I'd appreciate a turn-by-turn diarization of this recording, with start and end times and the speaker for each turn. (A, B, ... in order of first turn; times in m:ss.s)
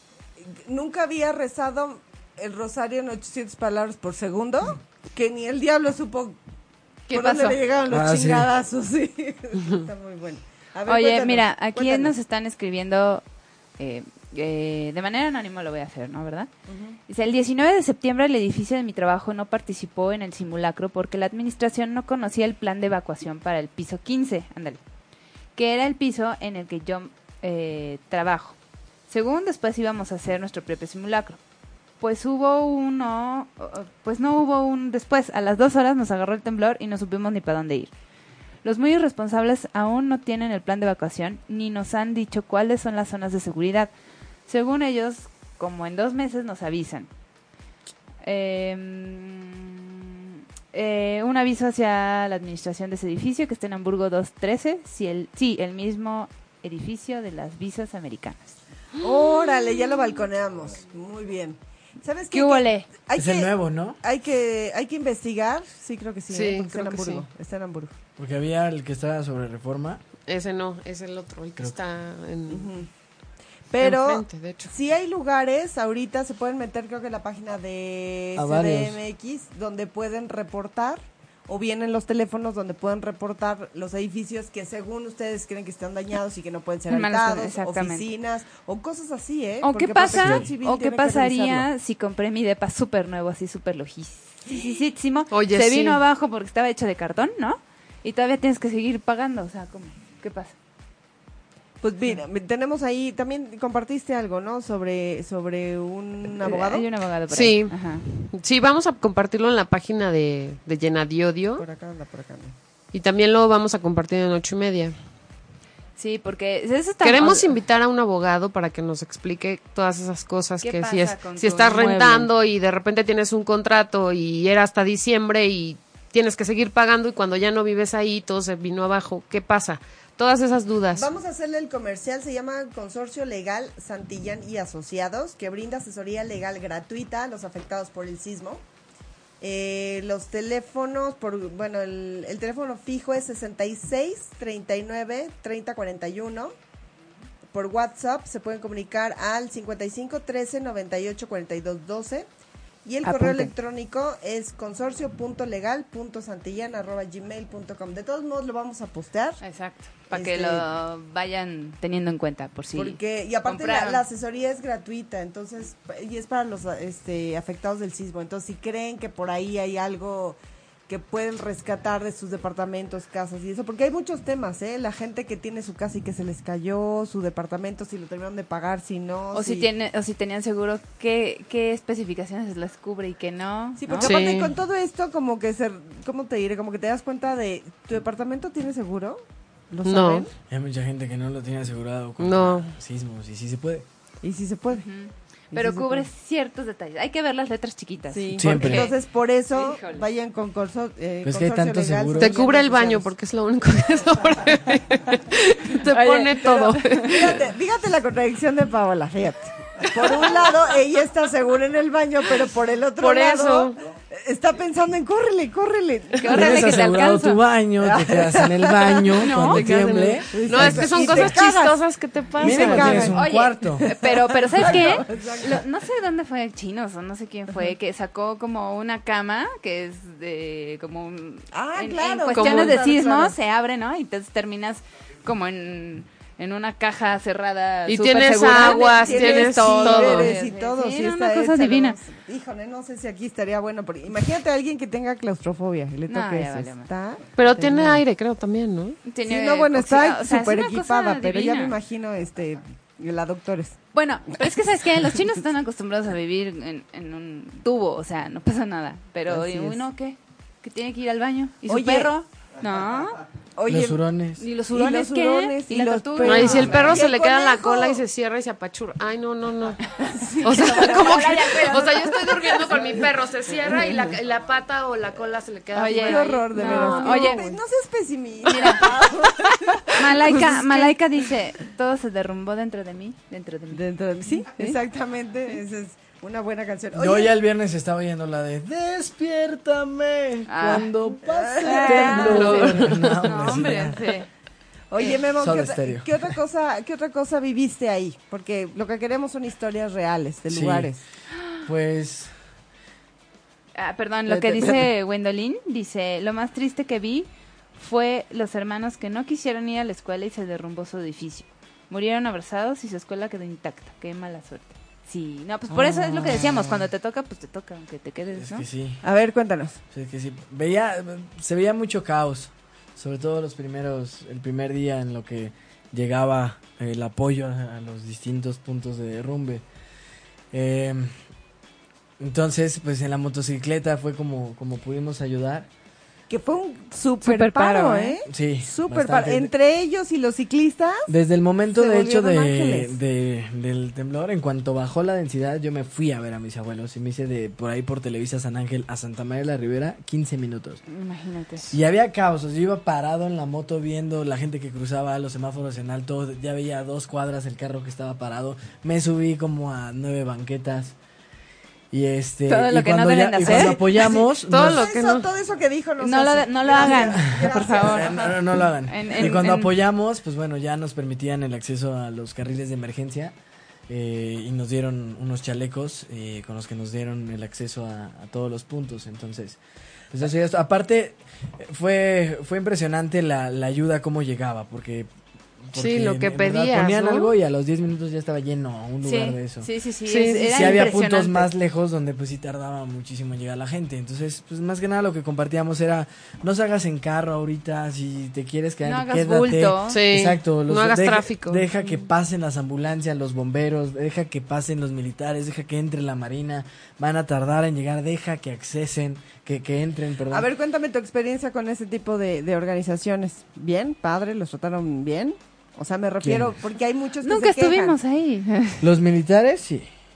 0:00.4-0:06.4 A
0:07.1-0:07.6 B
0:07.1-0:12.1 A
0:07.9-0:08.5 C
0:10.9-0:13.2 B
0:13.8-0:16.5 B
0:16.7-0:17.0 A
0:17.1-0:24.8 B
0:25.6-0:28.6 B
0:29.1-0:31.4 B
0:32.0-0:37.9 B
0:38.6-0:43.9 B
0:44.5-0:47.1 B
0:48.2-0:58.6 B
0:59.0-1:08.0 A
1:02.3-1:02.9 B
1:03.1-1:04.0 C
1:06.3-1:07.3 D
1:08.2-1:10.0 C
1:10.3-1:12.7 D
1:12.5-1:12.9 A
1:13.7-1:31.7 A
1:13.8-1:14.7 D
1:18.4-1:19.0 C
1:26.9-1:28.1 B
1:29.6-1:40.5 B
1:30.1-1:30.5 C
1:35.3-1:36.0 D
1:41.8-1:46.9 A
1:46.4-1:48.0 B
1:47.3-1:51.6 D
1:51.6-1:52.6 A
1:52.9-1:55.0 D
1:56.0-1:57.6 B
1:57.0-2:11.1 D
2:00.6-2:02.3 B
2:11.0-2:18.6 A
2:19.4-2:26.6 A
2:27.5-2:32.3 A
2:32.8-2:39.4 A
2:33.0-2:33.5 B
2:39.4-2:44.0 B
2:40.1-2:40.7 A
2:42.8-2:59.7 A
2:59.3-3:04.2 B
3:03.8-3:10.3 A
3:04.0-3:04.6 D
3:09.8-3:10.3 D
3:10.5-3:13.9 C
3:12.2-3:12.8 D
3:14.2-3:14.9 A
3:14.7-3:19.0 B
3:15.5-3:16.1 A
3:18.1-3:23.1 A
3:18.4-3:18.9 C
3:19.5-3:20.1 B
3:21.2-3:22.4 C
3:22.2-3:27.4 D
3:25.9-3:27.1 B
3:26.4-3:36.7 A
3:33.0-3:33.8 D
3:36.2-3:37.4 B
3:36.3-3:41.4 C
3:37.8-3:39.2 A
3:39.2-3:39.6 B
3:39.4-3:43.1 D
3:40.3-3:41.8 A
3:42.4-3:43.2 A
3:42.4-3:43.9 C
3:42.8-4:02.0 B
3:43.8-3:45.6 A
3:51.5-3:53.4 A
3:52.3-3:52.8 D
3:57.9-4:00.3 D
3:58.5-4:08.0 A
4:06.1-4:06.9 B
4:07.4-4:09.0 D
4:09.1-4:11.8 B
4:09.2-4:13.8 A
4:13.9-4:23.2 B
4:19.3-4:19.8 A
4:21.7-4:22.1 A
4:23.6-4:24.0 A
4:23.7-4:24.4 C
4:24.4-4:26.9 B
4:24.7-4:28.0 A
4:26.2-4:29.8 D
4:30.0-4:32.2 B
4:30.3-4:33.0 A
4:30.4-4:37.5 D
4:33.7-4:34.1 A
4:35.7-4:37.5 B
4:36.0-4:41.0 A
4:38.5-4:39.0 B
4:39.8-4:43.8 B
4:43.7-4:47.3 A
4:44.4-4:44.8 B
4:46.9-4:54.0 C
4:50.5-4:50.9 B
4:51.2-4:52.6 A
4:51.6-4:54.3 B
4:52.2-4:53.3 D
4:54.9-5:01.0 A
4:55.4-4:56.3 C
5:00.5-5:00.9 C
5:01.6-5:02.3 C
5:03.8-5:18.7 B
5:04.3-5:04.8 C
5:15.7-5:16.7 A
5:18.4-5:19.0 C
5:19.0-5:19.8 A
5:19.9-5:29.6 C
5:30.5-5:31.1 C
5:32.2-5:35.7 C
5:36.3-5:41.1 A
5:37.2-5:38.2 B
5:38.3-5:39.5 C
5:41.1-5:50.8 C
5:41.8-5:43.0 A
5:50.9-5:51.7 B
5:51.7-6:01.0 C
6:01.9-6:04.9 C
6:02.5-6:03.8 B
6:03.4-6:08.5 A
6:04.0-6:05.3 D
6:06.0-6:09.7 B
6:06.9-6:13.4 C
6:13.9-6:19.6 C
6:20.1-6:29.7 C
6:25.7-6:27.3 D
6:29.0-6:31.5 B
6:30.1-6:30.8 D
6:30.4-6:50.5 C
6:38.8-6:40.0 B
6:39.9-6:41.7 D
6:50.3-6:58.0 A
6:56.2-6:56.6 C
6:57.2-6:58.9 B
6:58.8-6:59.9 C